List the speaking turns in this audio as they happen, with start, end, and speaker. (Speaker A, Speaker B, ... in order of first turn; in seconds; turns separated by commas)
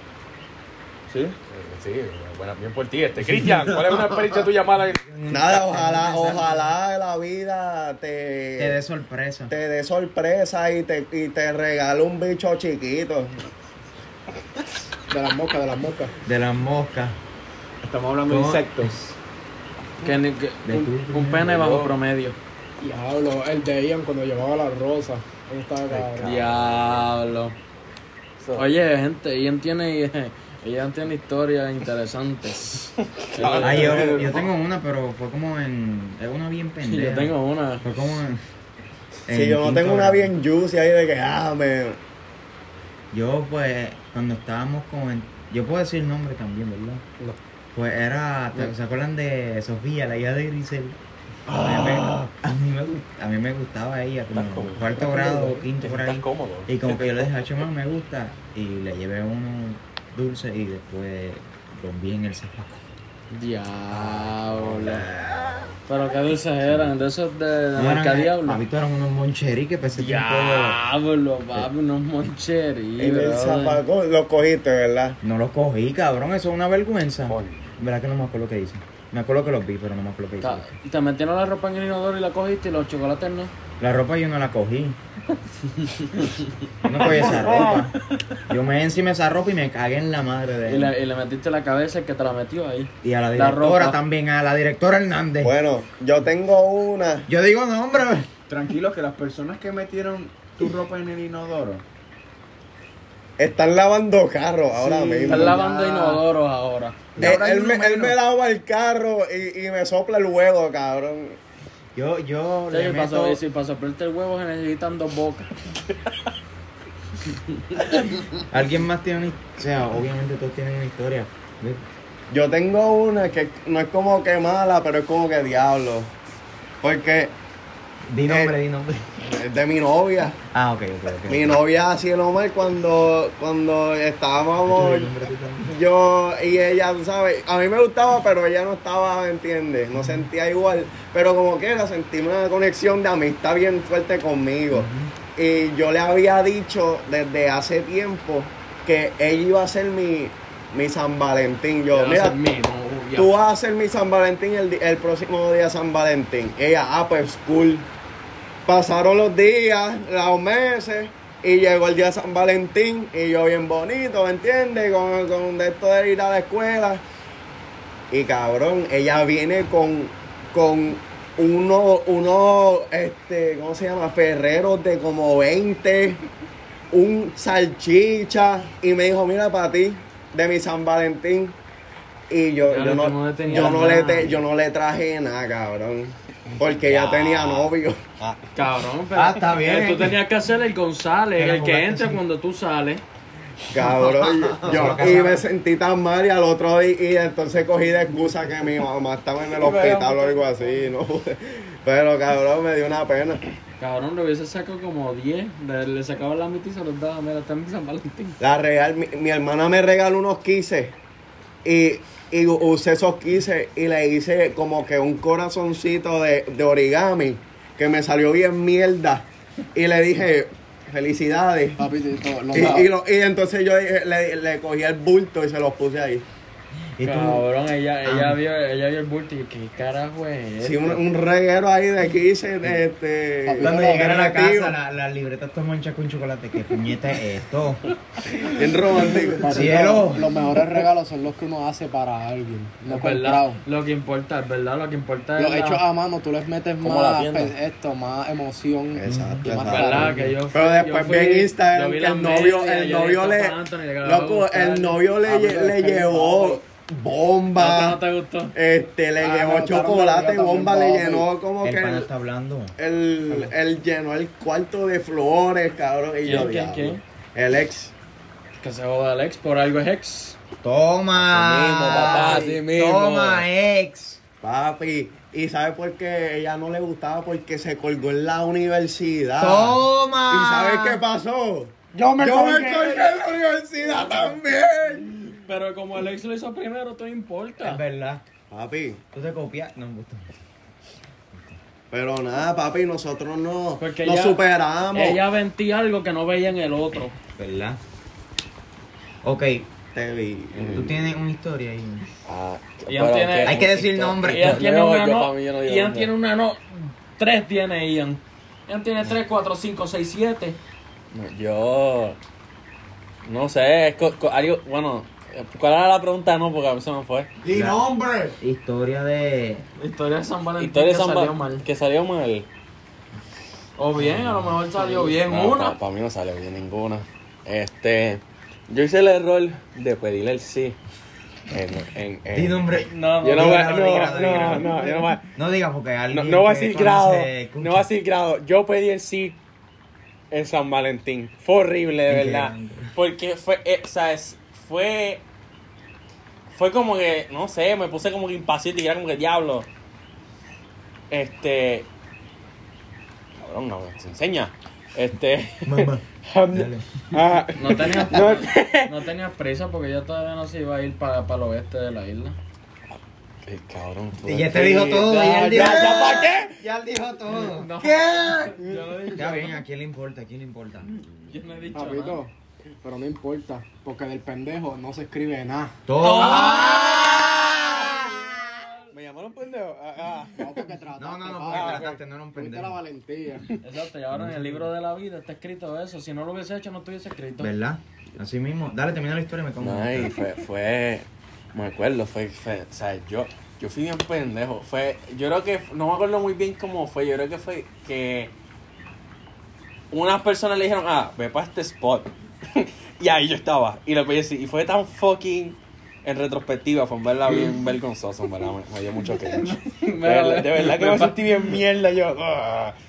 Speaker A: 1.1-1.4, Speaker B: 1.5-5.0, Speaker C: 4.9-6.7, Speaker D: 5.3-8.8, Speaker C: 8.6-9.5, Speaker D: 9.5-13.5, Speaker E: 15.1-16.1, Speaker C: 16.2-17.2, Speaker A: 17.8-19.0, Speaker C: 18.3-19.1, Speaker F: 20.0-22.4, Speaker C: 20.6-21.7, Speaker E: 22.8-26.3, Speaker B: 25.9-27.0, Speaker F: 26.2-27.6, Speaker B: 28.4-28.7, Speaker F: 28.6-34.3, Speaker B: 33.4-34.1, Speaker D: 33.5-34.4, Speaker C: 33.6-38.4, Speaker F: 36.8-37.9, Speaker C: 39.3-40.3, Speaker D: 39.3-42.0, Speaker C: 43.1-47.0, Speaker C: 47.8-51.0, Speaker D: 51.5-52.1, Speaker C: 51.6-62.9, Speaker B: 54.3-55.0, Speaker E: 55.0-55.6, Speaker B: 55.8-57.3, Speaker F: 63.3-65.1, Speaker C: 63.9-65.7, Speaker F: 65.9-68.6, Speaker C: 67.8-70.8, Speaker F: 70.0-73.8, Speaker D: 73.0-75.2, Speaker C: 75.2-80.7, Speaker B: 77.3-77.6, Speaker F: 80.4-83.5, Speaker C: 83.8-85.0, Speaker C: 86.8-88.0, Speaker C: 88.5-90.9, Speaker F: 90.7-94.0, Speaker C: 93.0-95.5, Speaker D: 95.4-97.3, Speaker C: 97.3-98.3, Speaker A: 98.5-101.8, Speaker D: 103.4-106.1, Speaker A: 104.9-105.7, Speaker F: 105.2-107.1, Speaker D: 107.2-111.4, Speaker E: 107.3-108.1, Speaker C: 112.0-113.4, Speaker F: 112.7-115.5, Speaker C: 118.5-121.8, Speaker D: 122.3-126.1, Speaker D: 126.8-127.3, Speaker C: 128.1-129.1, Speaker D: 128.3-128.5, Speaker D: 129.2-130.4, Speaker C: 130.5-131.6, Speaker D: 131.3-135.1, Speaker C: 134.6-135.8, Speaker D: 135.7-152.4, Speaker C: 144.7-145.1, Speaker F: 151.9-153.3, Speaker D: 153.2-157.9, Speaker D: 158.7-167.0, Speaker D: 168.1-176.2, Speaker D: 176.9-181.6, Speaker D: 182.3-188.2, Speaker F: 182.7-184.3, Speaker C: 186.7-187.7, Speaker F: 188.5-193.0, Speaker C: 189.1-190.2, Speaker C: 191.4-192.2, Speaker D: 193.7-203.4, Speaker C: 194.6-195.4, Speaker B: 199.6-200.8, Speaker F: 203.8-208.4, Speaker D: 208.4-211.0, Speaker D: 211.6-221.8, Speaker E: 221.8-222.9, Speaker D: 222.5-226.3, Speaker C: 227.0-227.4, Speaker F: 227.0-231.0, Speaker C: 228.0-228.4, Speaker D: 230.6-234.8, Speaker E: 233.5-234.2, Speaker C: 233.6-237.8, Speaker D: 238.3-240.0, Speaker E: 239.5-243.6, Speaker C: 239.5-240.3, Speaker F: 242.9-245.8, Speaker E: 245.4-250.4, Speaker B: 246.8-247.6, Speaker D: 249.0-258.0, Speaker C: 249.1-249.5, Speaker F: 249.6-255.0, Speaker E: 255.3-256.6, Speaker F: 257.6-258.6, Speaker D: 258.6-262.1, Speaker E: 259.2-261.3, Speaker C: 261.6-262.7, Speaker D: 262.8-267.9, Speaker F: 266.2-267.0, Speaker F: 268.6-270.4, Speaker C: 270.6-274.2, Speaker B: 271.3-273.5, Speaker D: 271.9-272.5, Speaker D: 274.4-285.4, Speaker C: 279.4-281.0, Speaker E: 281.9-283.3, Speaker F: 283.9-284.4, Speaker F: 285.5-287.8, Speaker C: 287.6-288.2, Speaker D: 288.5-289.0, Speaker C: 289.1-290.3, Speaker D: 291.9-295.2, Speaker F: 293.8-294.4, Speaker F: 294.9-297.1, Speaker C: 297.4-297.8, Speaker C: 299.2-299.7, Speaker D: 299.9-301.0, Speaker B: 300.5-300.9, Speaker C: 300.7-302.1, Speaker B: 302.3-306.1, Speaker F: 302.9-303.6, Speaker C: 303.4-304.7, Speaker F: 304.2-310.6, Speaker B: 311.1-312.2, Speaker B: 313.2-317.3, Speaker D: 317.4-318.4, Speaker C: 317.5-317.8, Speaker C: 318.4-319.6, Speaker F: 319.8-321.6, Speaker B: 320.6-322.5, Speaker F: 323.8-325.8, Speaker C: 324.0-324.4, Speaker B: 324.8-330.8, Speaker B: 331.5-332.6, Speaker C: 332.3-334.7, Speaker F: 332.9-334.9, Speaker B: 333.2-335.2, Speaker C: 335.4-337.9, Speaker B: 336.1-339.4, Speaker B: 340.3-345.2, Speaker C: 342.1-342.9, Speaker B: 346.5-349.7, Speaker B: 351.1-351.9, Speaker B: 353.4-358.9, Speaker C: 355.6-356.9, Speaker F: 357.6-362.4, Speaker B: 362.9-366.6, Speaker C: 364.2-368.6, Speaker F: 367.4-369.6, Speaker C: 369.1-370.9, Speaker F: 371.3-372.2, Speaker E: 371.7-372.3, Speaker E: 372.8-375.8, Speaker C: 375.9-378.3, Speaker B: 376.0-377.8, Speaker F: 376.1-376.6, Speaker B: 378.9-380.7, Speaker E: 380.4-383.5, Speaker C: 381.0-382.8, Speaker B: 381.5-381.9, Speaker F: 383.6-387.5, Speaker C: 387.4-390.1, Speaker B: 389.6-398.3, Speaker B: 399.9-412.8, Speaker F: 409.4-411.2